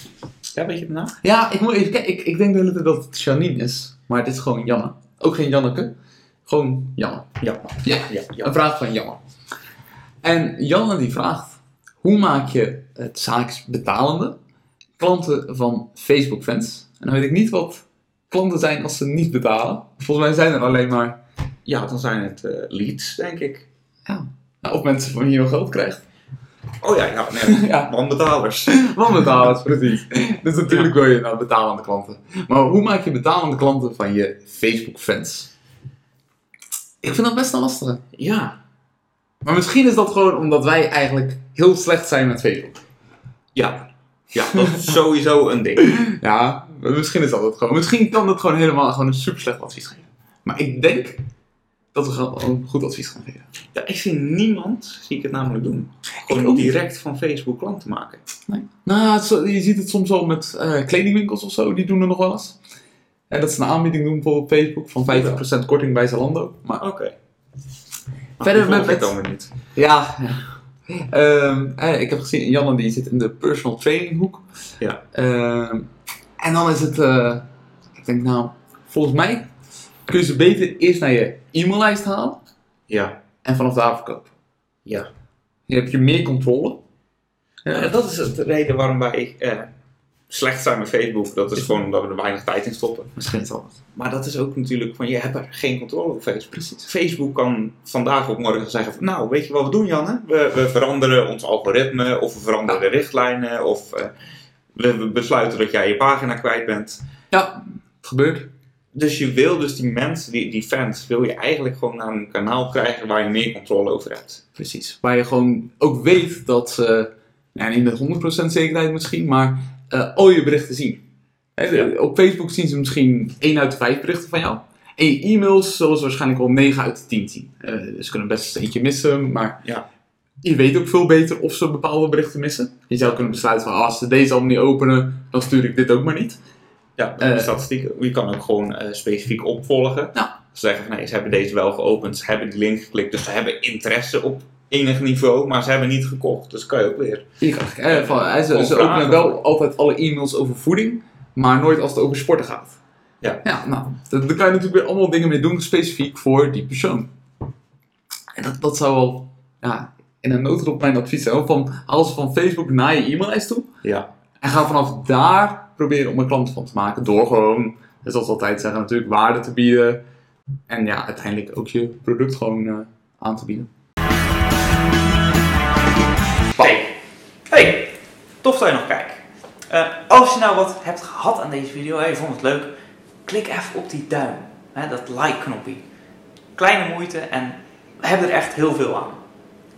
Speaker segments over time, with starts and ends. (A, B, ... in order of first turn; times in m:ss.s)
0:00.6-0:01.2 A
0:01.2-0:05.9 B
0:06.5-0:07.3 B
0:07.4-0:08.5 A
0:07.8-0:09.2 B
0:10.2-0:14.4 B
0:15.0-0:21.2 B
0:21.7-0:23.7 A
0:24.1-0:26.0 B
0:26.8-0:28.9 A
0:27.5-0:27.9 B
0:28.7-0:35.5 B
0:37.0-0:38.0 B
0:38.2-0:38.6 A
0:39.4-0:42.8 B
0:43.6-0:45.8 A
0:45.8-0:51.2 B
0:51.9-0:53.5 B
0:53.7-0:58.2 A
0:56.2-0:56.7 B
0:58.5-1:02.6 B
1:03.3-1:06.8 B
1:05.1-1:05.4 A
1:06.8-1:07.1 A
1:08.4-1:09.5 A
1:08.4-1:09.2 B
1:09.7-1:14.4 B
1:15.1-1:15.9 B
1:16.4-1:19.5 B
1:20.1-1:22.4 B
1:22.9-1:23.2 A
1:23.4-1:24.3 B
1:25.7-1:26.8 B
1:27.7-1:27.9 B
1:27.7-1:29.7 A
1:30.3-1:44.1 A
1:33.2-1:33.7 B
1:44.8-1:47.0 A
1:47.3-1:48.5 B
1:49.0-1:54.4 A
1:54.6-2:01.0 B
2:01.6-2:09.6 B
2:10.4-2:16.4 B
2:13.0-2:13.4 A
2:17.0-2:27.3 A
2:17.2-2:17.5 B
2:27.4-2:32.8 B
2:27.9-2:29.4 A
2:33.4-2:37.1 B
2:38.4-2:43.7 B
2:43.8-2:44.1 A
2:44.4-2:50.0 B
2:50.7-2:53.7 B
2:56.6-2:56.9 A
2:57.5-2:57.9 A
2:58.4-3:02.7 A
3:03.2-3:05.8 A
3:06.6-3:09.2 A